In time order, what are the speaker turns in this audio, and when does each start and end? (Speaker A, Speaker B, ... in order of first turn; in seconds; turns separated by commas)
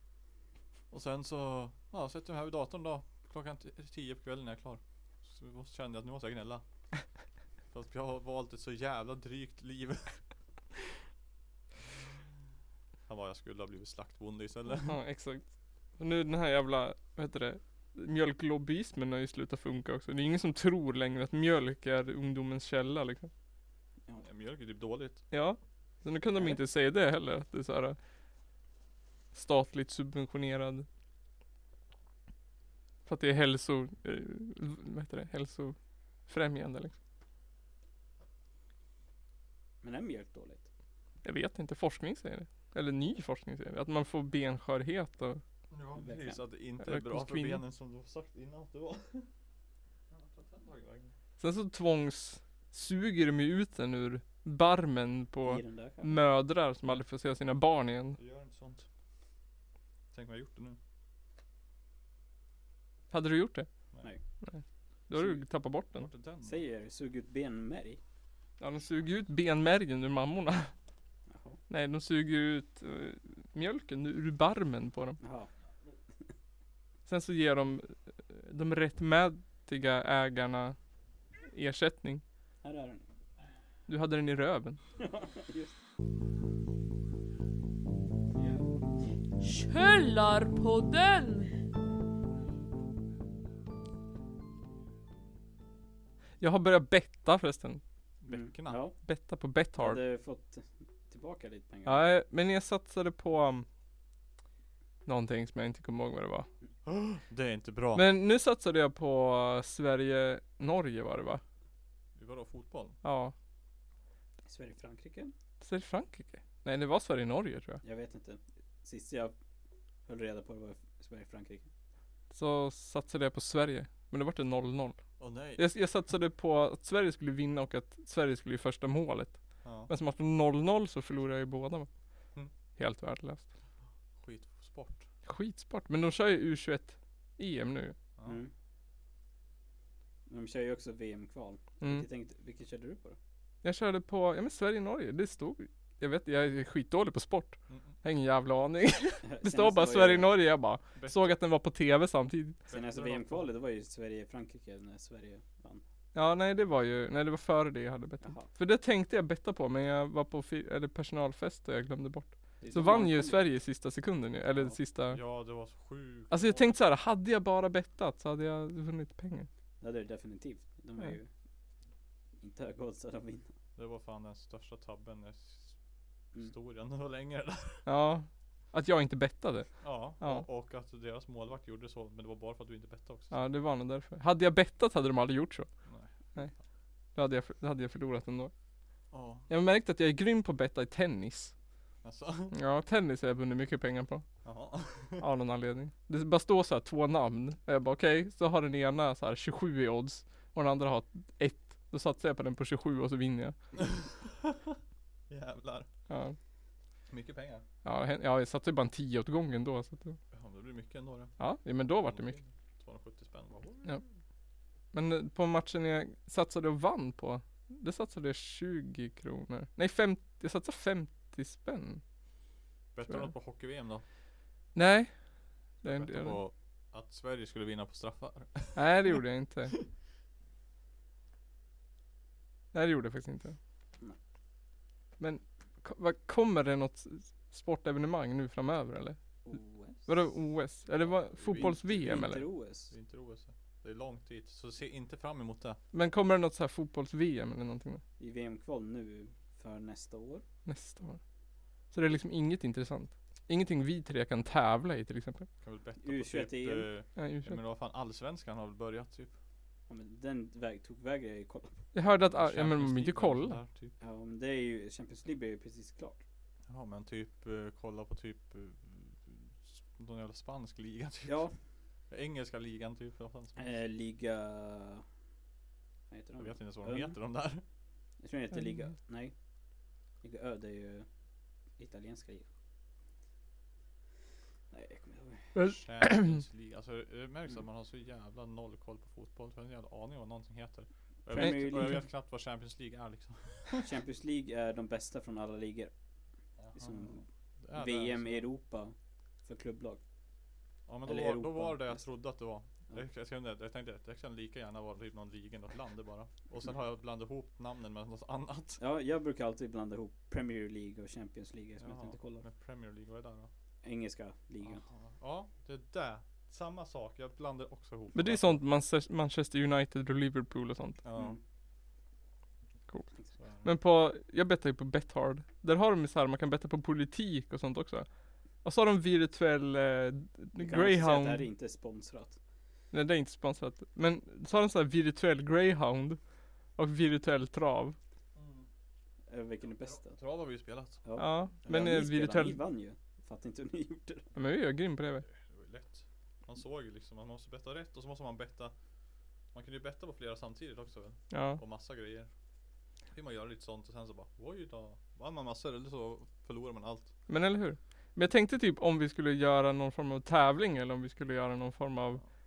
Speaker A: 0.9-6.6, Speaker A: 7.7-10.2, Speaker A: 13.1-15.0, Speaker B: 14.7-23.3, Speaker A: 24.2-25.2, Speaker B: 25.3-28.0, Speaker B: 29.3-30.9, Speaker B: 33.0-36.9, Speaker C: 39.8-40.7, Speaker B: 41.2-45.4, Speaker A: 45.7-49.3, Speaker C: 46.0-46.4, Speaker B: 46.8-47.6, Speaker A: 50.1-51.1, Speaker B: 51.4-58.2, Speaker C: 55.4-56.1, Speaker A: 58.2-58.9, Speaker A: 60.1-60.8, Speaker B: 63.1-63.7, Speaker B: 64.2-66.1, Speaker A: 65.9-66.6, Speaker C: 66.4-68.0, Speaker B: 68.6-70.7, Speaker C: 71.3-71.6, Speaker B: 71.7-75.2, Speaker C: 75.2-75.5, Speaker B: 77.0-80.8, Speaker B: 81.4-82.2, Speaker C: 82.6-83.0, Speaker B: 83.9-84.8, Speaker C: 85.0-85.8, Speaker D: 89.4-91.5, Speaker B: 96.4-97.8, Speaker A: 98.2-98.8, Speaker C: 98.3-99.0, Speaker B: 99.0-100.0, Speaker C: 99.8-102.1, Speaker B: 101.8-103.7, Speaker B: 105.0-106.5, Speaker A: 106.8-108.0, Speaker B: 107.9-111.4, Speaker A: 112.1-113.0, Speaker B: 113.0-113.3, Speaker C: 114.5-115.3, Speaker B: 115.6-117.8, Speaker C: 117.8-119.3, Speaker C: 120.1-121.7, Speaker B: 122.3-131.9, Speaker A: 125.2-125.6, Speaker A: 129.6-129.9, Speaker B: 132.7-133.5, Speaker A: 134.2-135.1, Speaker B: 135.2-137.9, Speaker C: 138.2-138.5, Speaker C: 140.3-143.2, Speaker B: 143.6-152.6, Speaker C: 149.2-150.3, Speaker A: 150.9-151.3, Speaker A: 152.7-153.5, Speaker C: 152.7-155.8, Speaker B: 156.1-165.2, Speaker C: 158.2-158.5, Speaker C: 162.6-163.5, Speaker A: 165.1-166.7, Speaker B: 166.3-169.5, Speaker C: 169.8-171.3, Speaker C: 172.4-173.5, Speaker A: 173.8-175.8, Speaker A: 176.3-177.8, Speaker B: 177.8-180.4, Speaker A: 179.8-183.4, Speaker B: 183.3-185.7, Speaker A: 185.8-186.4, Speaker B: 187.1-188.5, Speaker A: 189.1-189.5, Speaker B: 189.5-191.5, Speaker A: 192.0-192.5, Speaker B: 192.5-194.2, Speaker A: 194.4-195.2, Speaker B: 195.2-203.6, Speaker A: 203.9-204.7, Speaker A: 205.3-205.9, Speaker B: 206.1-206.4, Speaker A: 207.1-207.6, Speaker B: 207.8-210.2, Speaker A: 210.3-211.4, Speaker B: 211.4-212.3, Speaker A: 212.0-214.1, Speaker B: 214.9-222.0, Speaker A: 222.9-224.0, Speaker B: 224.7-226.4, Speaker A: 225.8-229.2, Speaker B: 228.7-229.8, Speaker B: 232.7-233.6, Speaker B: 235.2-239.2, Speaker C: 239.4-240.1, Speaker B: 240.0-242.5, Speaker A: 240.9-245.8, Speaker C: 241.6-242.9, Speaker B: 245.9-248.0, Speaker C: 248.2-250.4, Speaker B: 250.7-251.2, Speaker B: 251.9-255.5, Speaker A: 255.6-259.3, Speaker C: 256.0-256.9, Speaker B: 257.1-257.6, Speaker C: 259.9-261.8, Speaker B: 261.9-263.6, Speaker A: 262.3-263.9, Speaker C: 264.0-266.2, Speaker A: 266.7-271.4, Speaker C: 271.2-271.5, Speaker A: 272.1-273.7, Speaker C: 273.6-275.1, Speaker C: 276.1-277.1, Speaker A: 276.4-277.6, Speaker C: 278.2-279.3, Speaker C: 280.2-281.1, Speaker C: 281.8-282.4, Speaker C: 284.7-285.6, Speaker B: 285.5-286.4, Speaker A: 285.6-293.9, Speaker C: 291.3-292.0, Speaker B: 291.4-292.0, Speaker C: 293.8-295.9, Speaker A: 296.6-298.4, Speaker C: 296.7-300.0, Speaker A: 300.9-308.8, Speaker C: 301.1-302.0, Speaker C: 308.8-312.4, Speaker A: 311.8-313.5, Speaker C: 313.8-314.8, Speaker A: 314.6-318.6, Speaker B: 318.1-321.0, Speaker A: 321.0-321.4, Speaker C: 321.1-321.4, Speaker A: 323.4-323.7, Speaker B: 323.6-331.5, Speaker C: 330.6-332.4, Speaker B: 332.9-338.0, Speaker A: 338.3-338.7, Speaker C: 339.3-340.2, Speaker A: 339.8-341.3, Speaker C: 341.0-344.3, Speaker B: 341.2-342.6, Speaker B: 344.4-345.3, Speaker A: 345.2-348.7, Speaker A: 349.5-352.3, Speaker B: 351.3-351.6, Speaker A: 353.1-357.1, Speaker B: 357.3-362.2